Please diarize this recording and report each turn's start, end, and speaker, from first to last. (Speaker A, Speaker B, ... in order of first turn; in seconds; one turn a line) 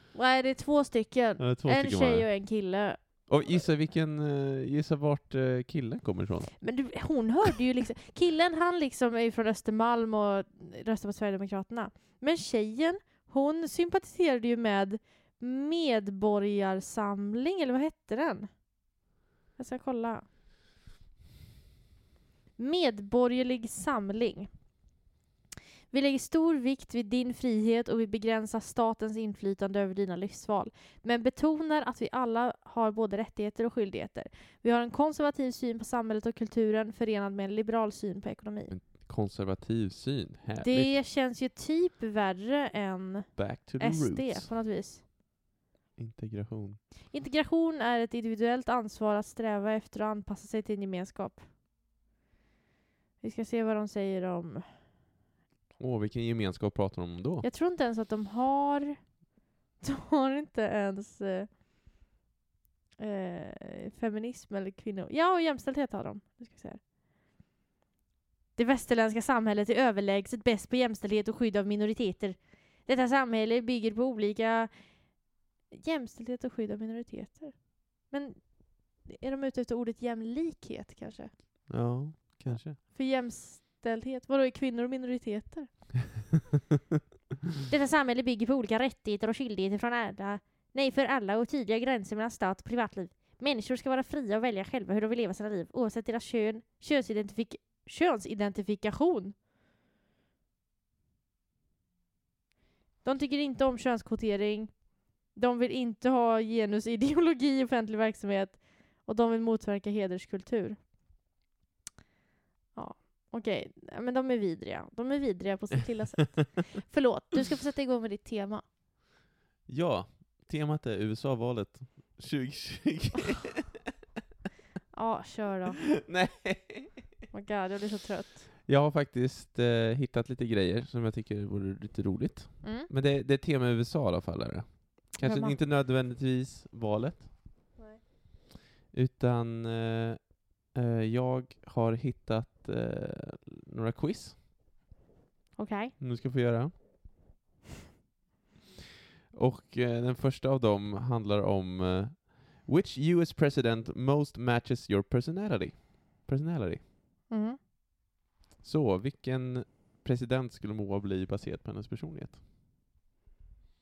Speaker A: 0.1-3.6
Speaker B: 1.4-2.3
Speaker B: 3.3-6.6
Speaker A: 6.6-18.6
Speaker A: 19.6-20.2
Speaker A: 22.6-24.5
Speaker A: 25.9-38.7
Speaker B: 38.7-41.0
Speaker A: 40.6-45.0
Speaker B: 43.4-44.5
Speaker B: 46.0-46.8
Speaker A: 47.1-51.5
Speaker A: 53.2-54.7
Speaker B: 55.8-57.5
Speaker A: 57.4-59.1
Speaker A: 59.8-61.5
Speaker A: 63.0-66.8
Speaker A: 68.5-81.7
Speaker B: 81.7-82.8
Speaker A: 82.4-86.0
Speaker A: 87.7-99.3
Speaker A: 103.0-110.8
Speaker A: 112.7-118.6
Speaker B: 119.7-123.9
Speaker A: 124.9-125.8
Speaker B: 126.0-127.1
Speaker A: 127.3-128.4
Speaker B: 128.6-137.4
Speaker A: 132.6-132.9
Speaker A: 135.2-135.6
Speaker B: 138.9-144.4
Speaker A: 145.6-145.9
Speaker B: 146.0-146.8
Speaker B: 149.3-156.8
Speaker A: 157.3-157.6
Speaker B: 158.6-162.4